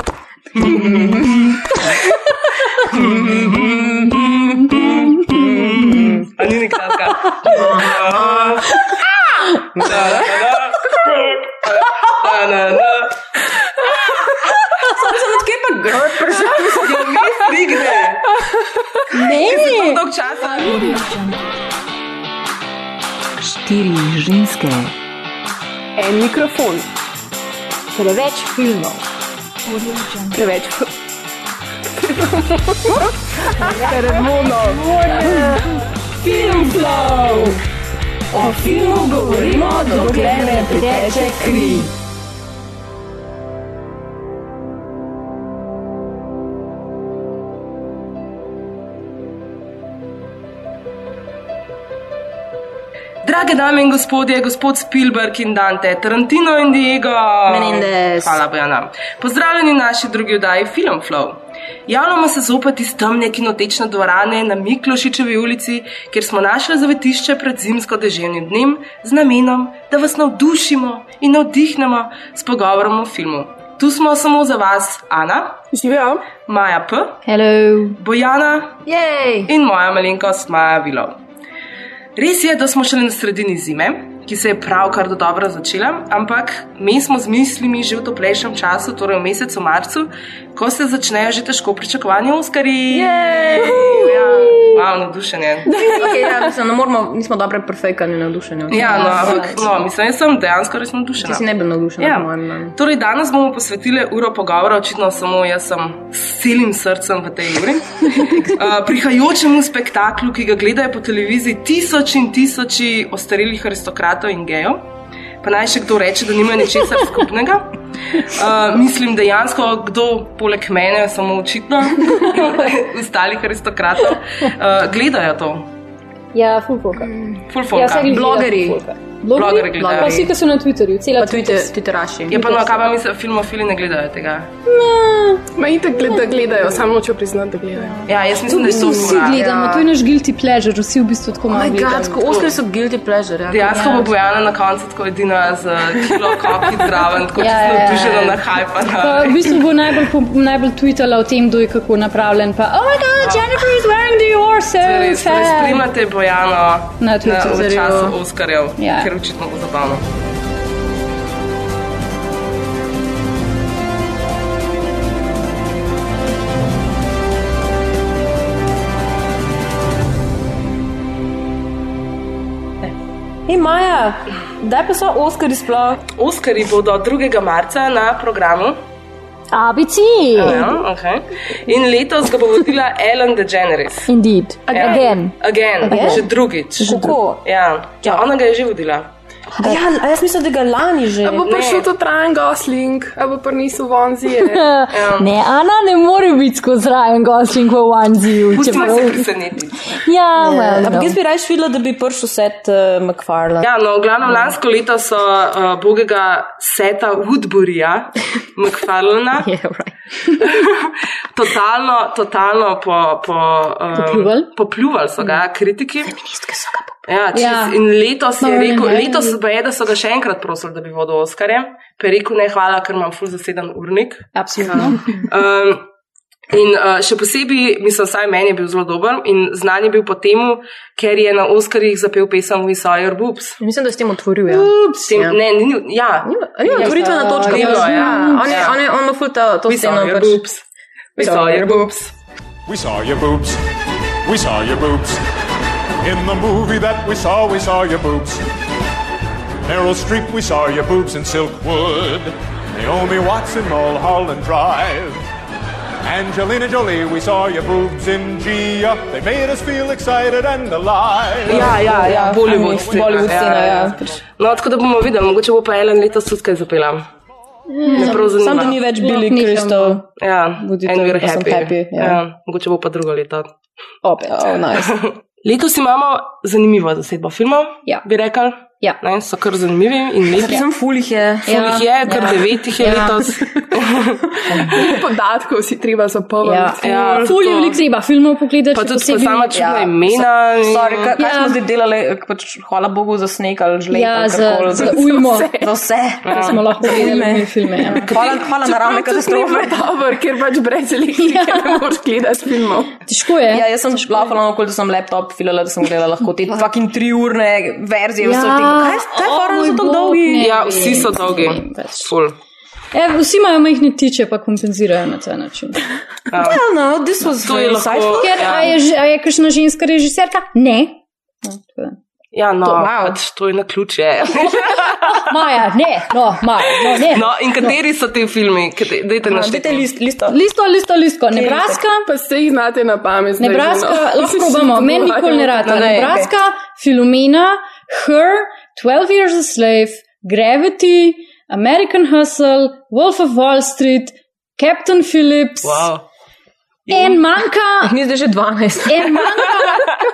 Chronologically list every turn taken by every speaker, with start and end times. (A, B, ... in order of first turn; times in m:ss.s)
0:00.6-0:01.5 A
0:00.7-0:01.3 B
0:02.8-0:08.8 A
0:03.1-0:06.3 B
0:07.4-0:08.6 B
0:09.8-0:10.5 B
0:09.8-0:13.2 A
0:14.7-0:17.5 B
0:16.8-0:18.2 A
0:19.1-0:20.0 C
0:19.3-0:21.0 A
0:23.5-0:24.9 B
0:26.0-0:26.8 D
0:27.9-0:29.0 C
0:30.3-0:30.9 D
0:32.0-0:35.6 D
0:34.9-0:35.5 C
0:36.2-0:37.6 D
0:38.3-0:41.9 B
0:38.6-0:41.8 C
0:53.2-1:15.6 A
0:57.5-0:58.4 B
1:15.7-1:16.3 D
1:16.5-1:17.2 A
1:17.3-1:18.0 C
1:18.0-1:18.8 A
1:18.9-1:19.4 C
1:19.5-1:21.2 A
1:22.2-1:35.7 A
1:32.9-1:34.6 B
1:35.7-1:39.7 B
1:38.7-1:41.4 A
1:38.8-1:39.4 C
1:41.2-1:42.8 B
1:42.0-1:54.8 A
1:55.4-2:05.7 A
2:06.3-2:07.1 C
2:07.0-2:07.4 B
2:07.5-2:08.1 A
2:07.7-2:11.7 C
2:08.1-2:08.8 B
2:09.3-2:10.3 A
2:09.7-2:10.3 B
2:11.2-2:12.6 B
2:12.3-2:12.6 C
2:12.3-2:14.5 A
2:14.7-2:15.4 C
2:15.6-2:18.1 D
2:18.1-2:19.4 A
2:18.5-2:22.2 C
2:18.7-2:19.9 D
2:21.5-2:24.1 B
2:23.5-2:29.6 A
2:27.4-2:28.4 C
2:29.0-2:35.8 C
2:33.2-2:33.5 A
2:34.8-2:40.0 A
2:37.0-2:37.7 C
2:37.4-2:38.2 B
2:38.8-2:39.1 C
2:53.5-2:56.0 B
2:56.2-2:58.8 A
2:59.5-3:00.7 C
3:00.4-3:04.1 A
3:04.1-3:06.3 C
3:04.7-3:09.1 A
3:05.8-3:06.3 B
3:06.8-3:07.4 B
3:06.8-3:07.2 C
3:09.6-3:11.5 B
3:11.2-3:14.6 D
3:11.4-3:11.9 A
3:14.4-3:19.3 C
3:14.9-3:15.3 A
3:18.5-3:20.0 A
3:19.9-3:21.2 C
3:20.4-3:23.7 B
3:23.6-3:29.5 A
3:29.4-3:30.4 B
3:30.5-3:36.1 A
3:33.9-3:34.5 C
3:36.0-3:37.0 B
3:37.1-3:45.8 A
3:37.3-3:37.8 C
3:38.4-3:39.4 C
3:44.4-3:45.0 C
3:44.7-3:45.0 B
3:46.5-3:53.6 A
3:53.6-3:55.4 B
3:55.1-3:56.3 A
3:56.2-4:00.4 B
3:56.7-3:58.5 C
3:56.8-3:58.8 A
3:59.7-4:00.6 A
4:01.2-4:02.1 A
4:01.2-4:01.9 B
4:02.7-4:03.6 E
4:04.3-4:05.2 E
4:06.0-4:08.4 E
4:09.7-4:15.3 E
4:16.0-4:21.7 E
4:21.4-4:24.1 B
4:21.5-4:27.1 A
4:27.8-4:30.0 C
4:27.8-4:30.1 B
4:28.0-4:28.8 A
4:30.2-4:33.5 A
4:30.6-4:32.2 B
4:34.0-4:34.6 C
4:34.3-4:35.0 B
4:34.9-4:40.6 A
4:40.3-4:43.1 B
4:41.5-4:43.2 C
4:41.5-4:44.2 A
4:44.5-4:44.9 B
4:44.7-4:47.3 D
4:46.4-4:49.7 C
4:46.8-4:47.8 A
4:48.7-4:51.1 A
4:49.5-4:59.8 B
4:51.2-4:51.6 C
4:53.9-4:55.6 C
4:54.8-4:55.4 D
4:56.2-4:56.6 A
4:56.3-4:58.0 C
4:58.0-5:03.0 D
5:01.2-5:01.8 C
5:03.0-5:03.7 C
5:03.4-5:11.0 B
5:08.2-5:12.1 C
5:10.4-5:12.3 A
5:12.9-5:15.8 C
5:16.3-5:16.6 A
5:16.3-5:18.7 B
5:17.4-5:18.7 A
5:18.1-5:22.0 C
5:22.3-5:25.3 A
5:22.6-5:23.2 B
5:25.2-5:27.7 C
5:27.0-5:29.9 A
5:29.2-5:30.4 B
5:30.3-5:32.1 C
5:31.3-5:31.8 B
5:32.0-5:36.0 D
5:33.4-5:45.9 C
5:35.7-5:36.2 A
5:35.9-5:36.3 B
5:45.6-5:46.0 A
5:46.9-5:47.9 C
5:46.9-5:47.2 A
5:47.8-5:49.6 B
5:48.9-5:49.9 C